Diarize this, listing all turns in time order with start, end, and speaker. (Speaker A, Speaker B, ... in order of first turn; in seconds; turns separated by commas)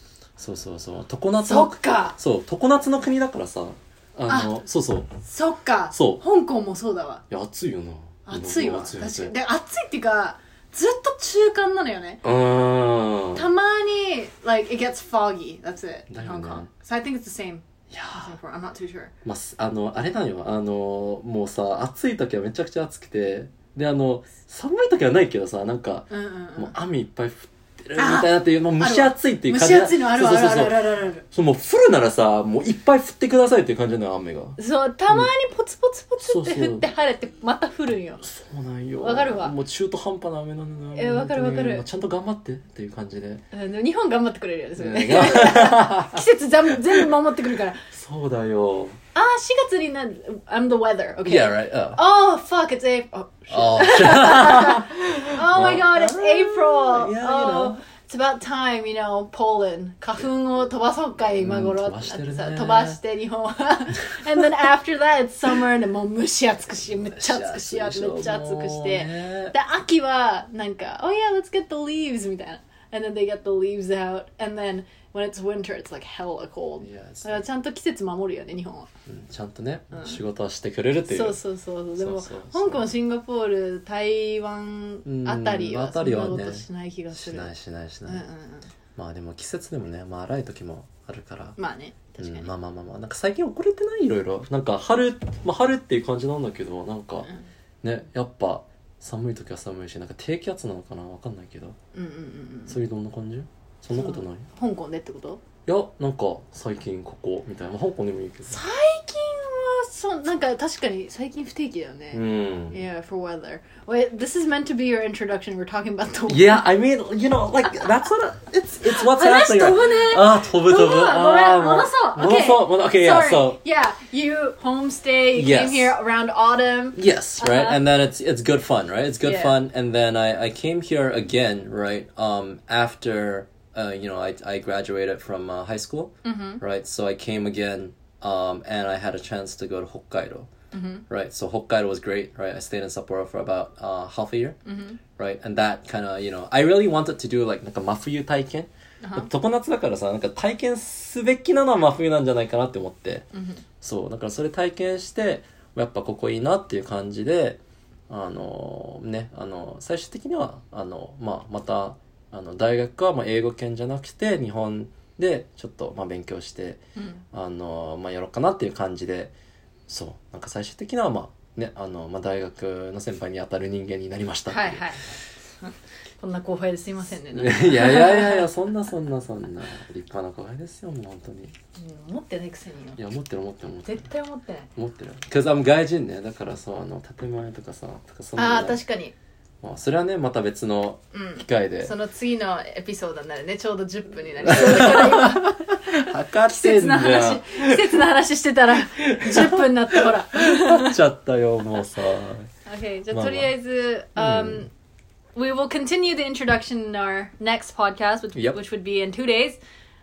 Speaker A: 0.4-5.1, Speaker B: 1.4-2.2, Speaker B: 4.3-4.6, Speaker B: 5.2-7.2, Speaker A: 5.9-6.2, Speaker A: 7.3-9.3, Speaker B: 8.3-12.2, Speaker A: 12.2-13.5, Speaker B: 13.3-19.1, Speaker A: 16.1-16.7, Speaker A: 17.9-18.3, Speaker A: 19.2-34.6, Speaker B: 26.1-26.7, Speaker B: 28.0-31.2, Speaker B: 34.6-38.2, Speaker A: 36.2-36.9, Speaker A: 38.2-43.4, Speaker B: 39.0-39.5, Speaker B: 40.9-41.8, Speaker B: 43.5-47.8, Speaker A: 44.8-46.2, Speaker A: 47.9-49.0, Speaker B: 49.1-78.9, Speaker A: 51.2-52.0, Speaker A: 53.5-57.8, Speaker A: 61.4-63.0, Speaker A: 66.8-69.5, Speaker A: 76.8-77.4, Speaker A: 79.1-81.4, Speaker B: 79.9-80.2, Speaker B: 81.1-87.5, Speaker A: 82.0-82.9, Speaker A: 85.0-88.2, Speaker B: 88.0-88.7, Speaker A: 89.0-91.6, Speaker B: 91.6-92.5, Speaker A: 92.2-97.3, Speaker A: 97.8-101.8, Speaker B: 101.9-102.8, Speaker A: 102.7-104.4, Speaker B: 103.9-105.4, Speaker A: 105.7-108.6, Speaker B: 108.5-116.7, Speaker A: 112.1-112.8, Speaker A: 116.3-123.6, Speaker B: 118.8-127.8, Speaker A: 125.3-125.9, Speaker A: 127.0-140.5, Speaker B: 129.2-129.6, Speaker B: 136.2-136.6, Speaker B: 140.7-141.0, Speaker A: 141.1-144.6, Speaker B: 144.7-145.0, Speaker A: 145.2-153.3, Speaker B: 149.0-149.3, Speaker B: 153.3-153.6, Speaker A: 153.8-169.3, Speaker B: 166.9-167.2, Speaker A: 169.9-174.9, Speaker B: 174.5-175.1, Speaker B: 175.6-178.5, Speaker A: 177.3-181.5, Speaker B: 181.8-183.0, Speaker A: 183.0-184.1, Speaker B: 183.8-184.7, Speaker A: 184.8-188.8, Speaker B: 188.3-189.1, Speaker A: 189.6-191.9, Speaker B: 191.1-201.0, Speaker A: 194.4-198.0, Speaker A: 198.9-202.5, Speaker B: 202.7-204.7, Speaker A: 203.1-203.6, Speaker A: 204.2-204.7, Speaker B: 205.3-209.6